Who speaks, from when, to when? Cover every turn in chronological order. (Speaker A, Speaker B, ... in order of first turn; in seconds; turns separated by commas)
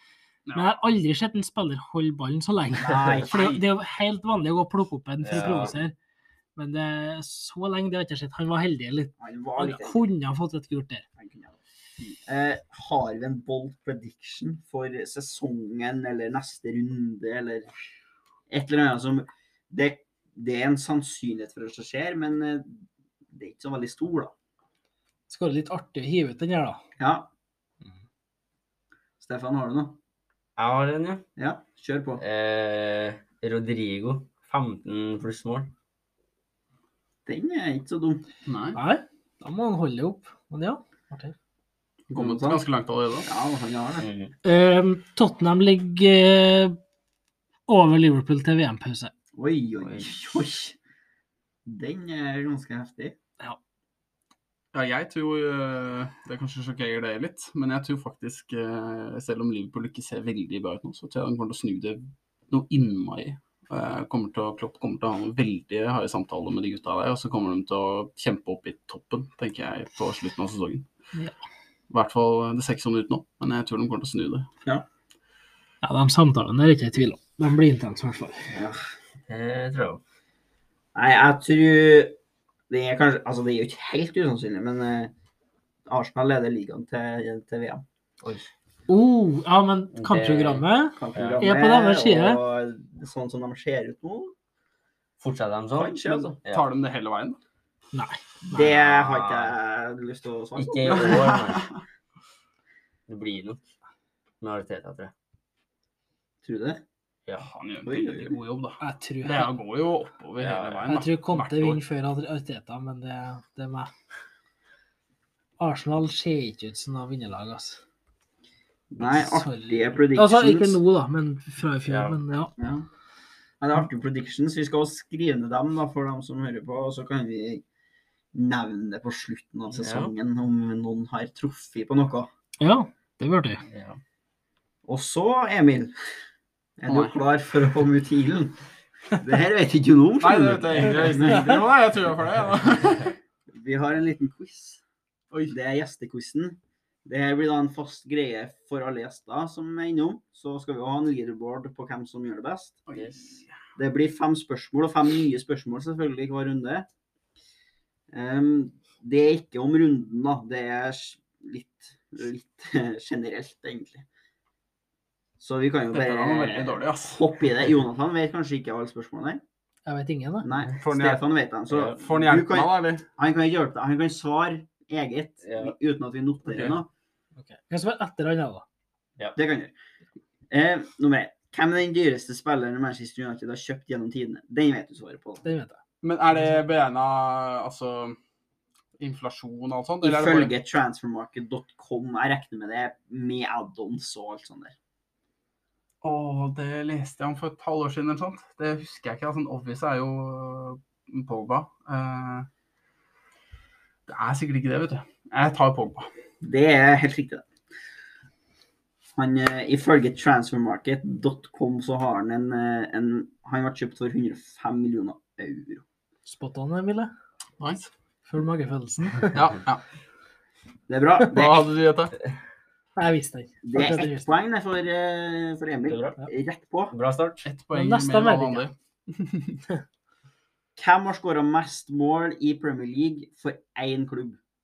Speaker A: 0.5-0.9, Speaker B: 0.5-6.0, Speaker C: 2.8-3.6, Speaker D: 5.2-5.8, Speaker B: 6.6-11.1, Speaker C: 9.2-10.0, Speaker C: 11.2-11.6, Speaker C: 12.1-17.7, Speaker C: 18.5-24.3, Speaker B: 25.3-26.8, Speaker C: 27.0-27.3, Speaker C: 29.2-30.0, Speaker D: 30.6-31.2, Speaker C: 31.4-32.2, Speaker D: 32.2-35.7, Speaker C: 37.3-38.3, Speaker A: 38.5-38.8, Speaker B: 38.8-41.4, Speaker C: 42.1-42.6, Speaker A: 42.1-43.3, Speaker C: 43.2-44.1, Speaker D: 44.0-44.3, Speaker B: 44.4-46.8, Speaker B: 47.7-49.1, Speaker C: 49.3-50.8, Speaker D: 49.8-50.1, Speaker C: 51.7-53.2, Speaker A: 54.7-70.9, Speaker A: 71.9-74.5, Speaker B: 75.8-78.5, Speaker C: 78.5-78.8, Speaker D: 79.3-80.0, Speaker C: 81.0-82.2, Speaker C: 82.7-85.1, Speaker C: 85.9-87.8, Speaker D: 88.2-88.5, Speaker B: 88.9-92.4, Speaker D: 90.0-91.5, Speaker C: 91.0-94.3, Speaker D: 95.2-96.7, Speaker C: 95.8-96.4, Speaker A: 96.5-97.4, Speaker B: 97.9-98.7, Speaker C: 98.5-101.4, Speaker D: 98.5-99.5, Speaker D: 100.6-101.7, Speaker A: 100.9-101.8, Speaker D: 103.1-103.6, Speaker D: 104.4-105.1, Speaker C: 106.4-106.8, Speaker A: 107.4-111.8, Speaker C: 107.8-108.4, Speaker B: 108.8-109.5, Speaker D: 110.4-110.9, Speaker B: 110.9-113.9, Speaker B: 115.6-117.8, Speaker C: 118.9-120.8, Speaker B: 119.0-122.5, Speaker D: 121.9-122.2, Speaker C: 122.6-122.9, Speaker C: 123.6-127.6, Speaker C: 128.3-132.3, Speaker D: 129.7-130.1, Speaker B: 132.6-133.6, Speaker D: 133.7-134.0, Speaker C: 134.9-135.9, Speaker C: 136.8-141.6, Speaker A: 136.9-137.2, Speaker A: 140.2-143.1, Speaker C: 143.5-144.8, Speaker C: 145.5-152.8, Speaker A: 152.9-153.6, Speaker D: 152.9-153.4, Speaker C: 153.8-156.9, Speaker C: 158.1-164.1, Speaker C: 165.4-169.4, Speaker A: 165.9-167.2, Speaker B: 169.9-170.5, Speaker C: 170.4-176.9, Speaker A: 170.8-171.2, Speaker D: 171.7-172.0, Speaker A: 171.9-173.0, Speaker D: 175.4-175.7, Speaker A: 176.5-176.8, Speaker B: 177.4-178.7, Speaker C: 179.4-179.7, Speaker C: 180.5-185.4, Speaker B: 185.4-185.8, Speaker A: 186.0-188.2, Speaker A: 189.0-190.5, Speaker C: 190.0-194.8, Speaker A: 196.0-202.5, Speaker A: 204.1-206.1, Speaker C: 206.4-207.4, Speaker C: 209.2-215.8, Speaker B: 216.2-217.1, Speaker A: 217.6-217.9, Speaker B: 218.3-219.4, Speaker A: 219.3-219.8, Speaker C: 220.9-221.7, Speaker A: 221.3-222.2, Speaker B: 223.0-224.3, Speaker C: 223.6-226.9, Speaker D: 225.9-226.2, Speaker D: 226.9-227.4, Speaker A: 227.4-229.6, Speaker B: 227.7-228.7, Speaker C: 230.8-234.4